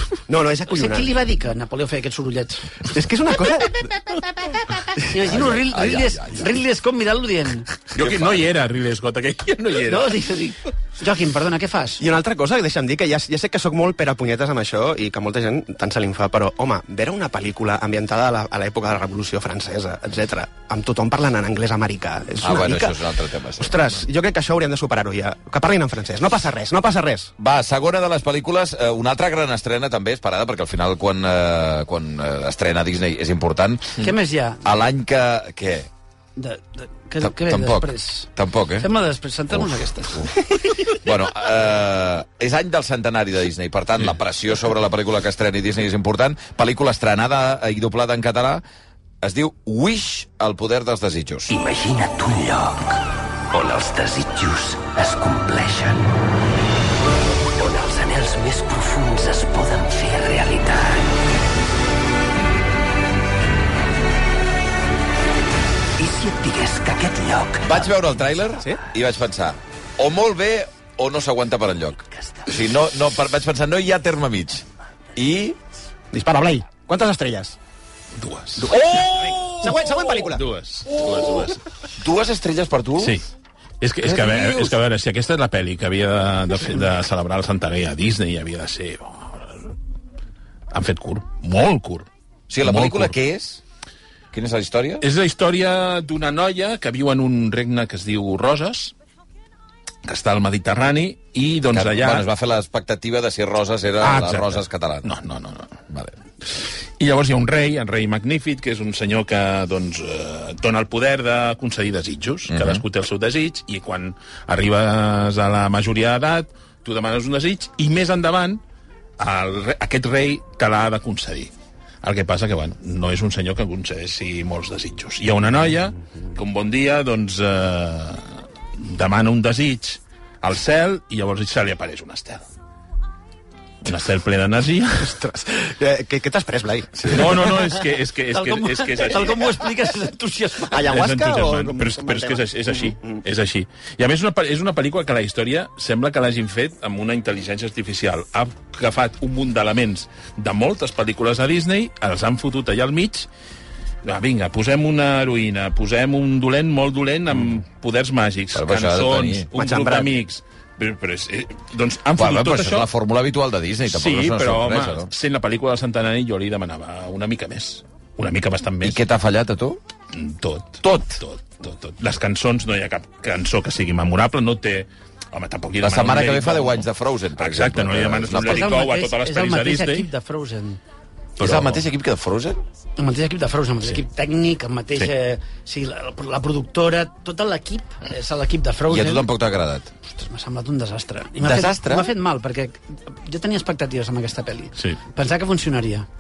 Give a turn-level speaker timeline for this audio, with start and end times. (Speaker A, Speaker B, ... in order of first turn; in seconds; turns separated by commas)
Speaker A: 0.3-1.1, Speaker B: 0.7-2.9, Speaker A: 2.9-3.9, Speaker B: 3.8-7.8, Speaker C: 5.2-6.5, Speaker D: 7.9-10.3, Speaker B: 9.8-12.0, Speaker A: 12.0-23.0, Speaker C: 22.4-23.9, Speaker A: 23.6-27.3, Speaker C: 27.4-34.1, Speaker B: 34.0-34.6, Speaker C: 34.6-35.9, Speaker B: 36.4-38.3, Speaker C: 37.2-38.9, Speaker B: 38.8-40.7, Speaker C: 39.5-40.3, Speaker C: 40.9-48.6, Speaker C: 49.2-51.5, Speaker E: 51.5-56.1, Speaker E: 57.6-61.2, Speaker E: 66.0-67.9, Speaker C: 67.6-74.6, Speaker E: 72.2-72.4, Speaker C: 75.2-75.6, Speaker A: 76.1-77.6, Speaker D: 78.2-79.7, Speaker A: 78.6-80.5, Speaker C: 78.7-79.3, Speaker D: 80.2-81.6, Speaker C: 82.0-83.2, Speaker D: 83.8-89.7, Speaker C: 84.0-84.7, Speaker D: 90.7-92.1, Speaker C: 92.5-93.6, Speaker D: 92.6-93.1, Speaker C: 94.3-95.0, Speaker D: 95.0-98.9, Speaker D: 100.0-102.3, Speaker C: 101.7-105.1, Speaker D: 104.0-105.8, Speaker D: 107.0-118.6, Speaker C: 112.5-112.8, Speaker D: 119.2-121.5, Speaker D: 122.0-132.5, Speaker D: 133.8-135.2, Speaker A: 135.0-137.5, Speaker D: 137.1-139.4, Speaker B: 138.3-140.8, Speaker A: 140.7-143.2, Speaker D: 140.8-153.3, Speaker D: 154.0-162.9, Speaker C: 158.5-159.5, Speaker A: 159.5-160.1, Speaker C: 162.2-165.1, Speaker D: 163.9-169.0, Speaker C: 168.8-169.8, Speaker D: 170.1-176.9, Speaker C: 170.8-171.1, Speaker C: 175.8-178.7, Speaker D: 177.4-180.1, Speaker B: 178.4-180.8, Speaker C: 181.4-182.6, Speaker D: 181.4-181.8, Speaker B: 183.0-189.3, Speaker C: 188.9-189.9, Speaker B: 190.1-196.1, Speaker C: 191.4-192.1